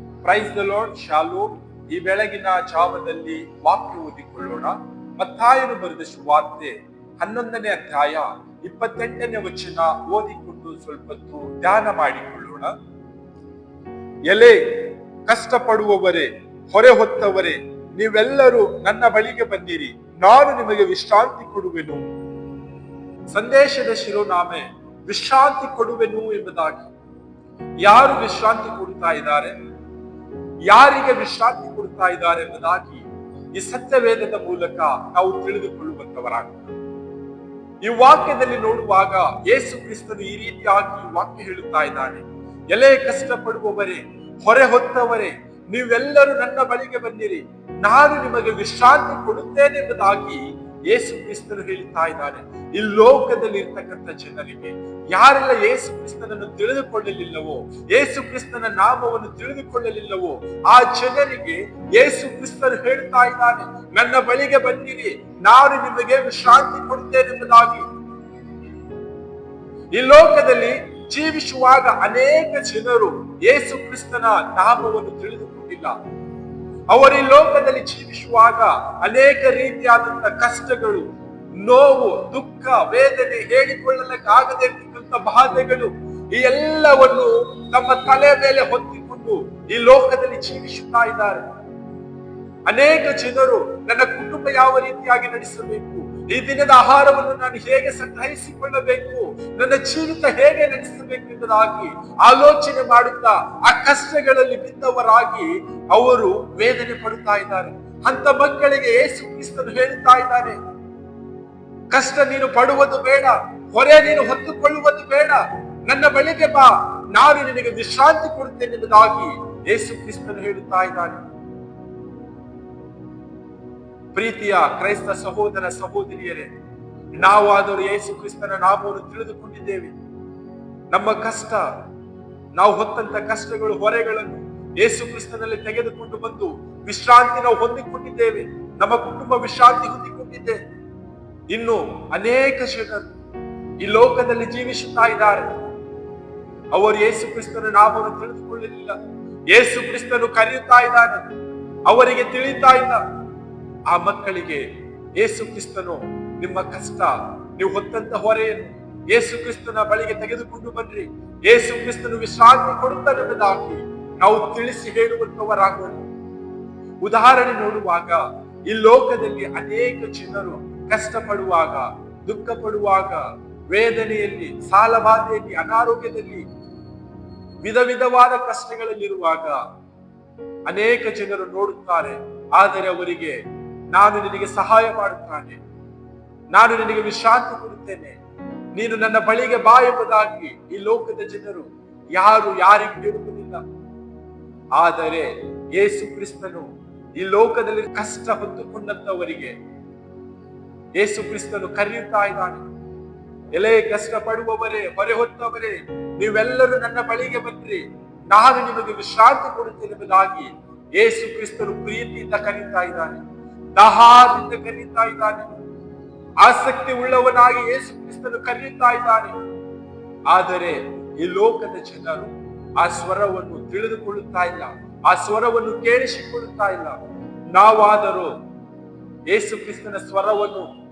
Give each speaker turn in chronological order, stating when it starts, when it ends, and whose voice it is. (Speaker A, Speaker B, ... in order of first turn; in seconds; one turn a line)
Speaker A: 0.2-12.7
Speaker A: 14.3-22.1
Speaker A: 23.3-26.9
Speaker A: 27.8-29.5
Speaker A: 30.7-36.7
Speaker A: 37.8-67.9
Speaker A: 69.9-76.0
Speaker A: 76.9-91.5
Speaker A: 92.7-110.6
Speaker A: 111.9-121.2
Speaker A: 124.1-126.5
Speaker A: 127.2-129.9
Speaker A: 130.9-131.7
Speaker A: 132.5-140.6
Speaker A: 141.5-143.1
Speaker A: 143.8-145.5
Speaker A: 146.7-149.0
Speaker A: 149.5-151.3
Speaker A: 151.9-153.0
Speaker A: 153.9-166.0
Speaker A: 167.0-176.4
Speaker A: 177.6-179.6
Speaker A: 180.7-183.4
Speaker A: 183.9-185.6
Speaker A: 186.5-188.2
Speaker A: 188.7-193.6
Speaker A: 194.7-199.5
Speaker A: 200.9-202.6
Speaker A: 203.5-213.2
Speaker A: 213.8-215.5
Speaker A: 216.4-219.3
Speaker A: 220.3-227.0
Speaker A: 227.5-228.3
Speaker A: 229.3-230.7